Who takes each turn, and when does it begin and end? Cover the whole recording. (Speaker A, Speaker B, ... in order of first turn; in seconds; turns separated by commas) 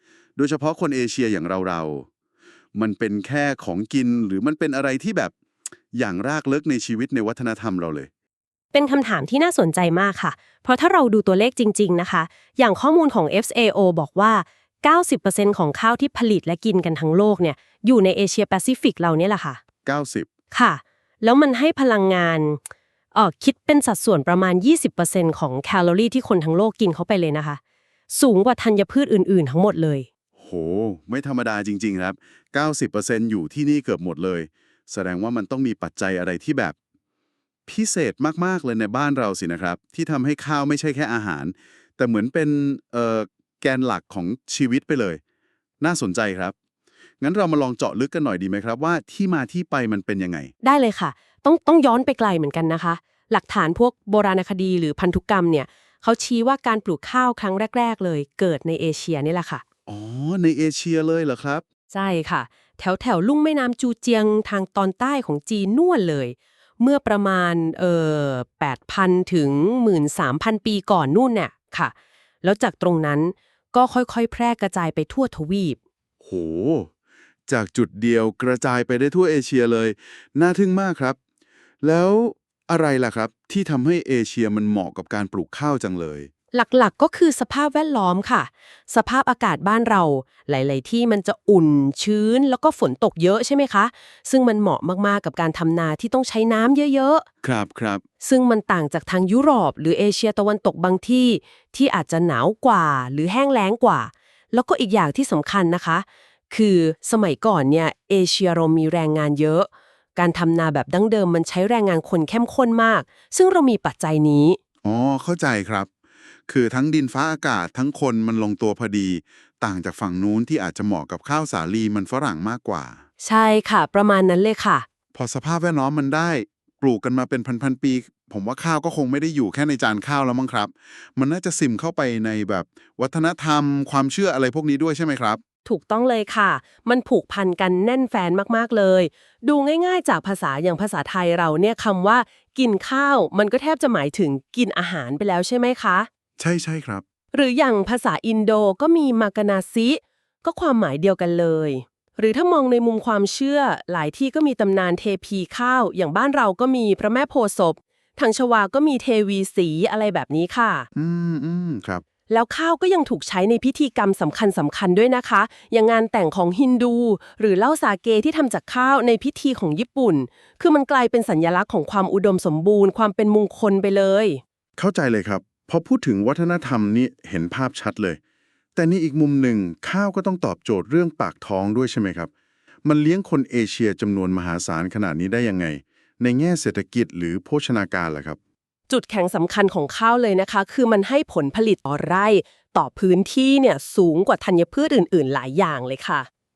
Speaker A: 0.4-2.1, Speaker A: 2.7-5.3, Speaker A: 5.9-8.1, Speaker B: 8.7-19.6, Speaker A: 19.9-20.3, Speaker B: 20.5-22.6, Speaker B: 23.1-30.1, Speaker A: 30.4-36.7, Speaker A: 37.7-45.2, Speaker A: 45.8-46.5, Speaker A: 47.2-50.5, Speaker B: 50.6-59.6, Speaker A: 59.9-61.6, Speaker B: 61.9-75.8, Speaker A: 76.2-76.9, Speaker A: 77.5-81.2, Speaker A: 81.8-86.3, Speaker B: 86.5-97.2, Speaker A: 97.4-98.0, Speaker B: 98.2-114.6, Speaker A: 114.8-115.9, Speaker A: 116.5-123.0, Speaker B: 123.2-124.9, Speaker A: 125.2-135.4, Speaker B: 135.7-146.1, Speaker A: 146.4-147.0, Speaker B: 147.3-160.9, Speaker A: 160.9-162.0, Speaker B: 162.3-174.4, Speaker A: 174.8-178.2, Speaker A: 178.8-182.3, Speaker A: 182.8-188.4, Speaker B: 188.9-196.3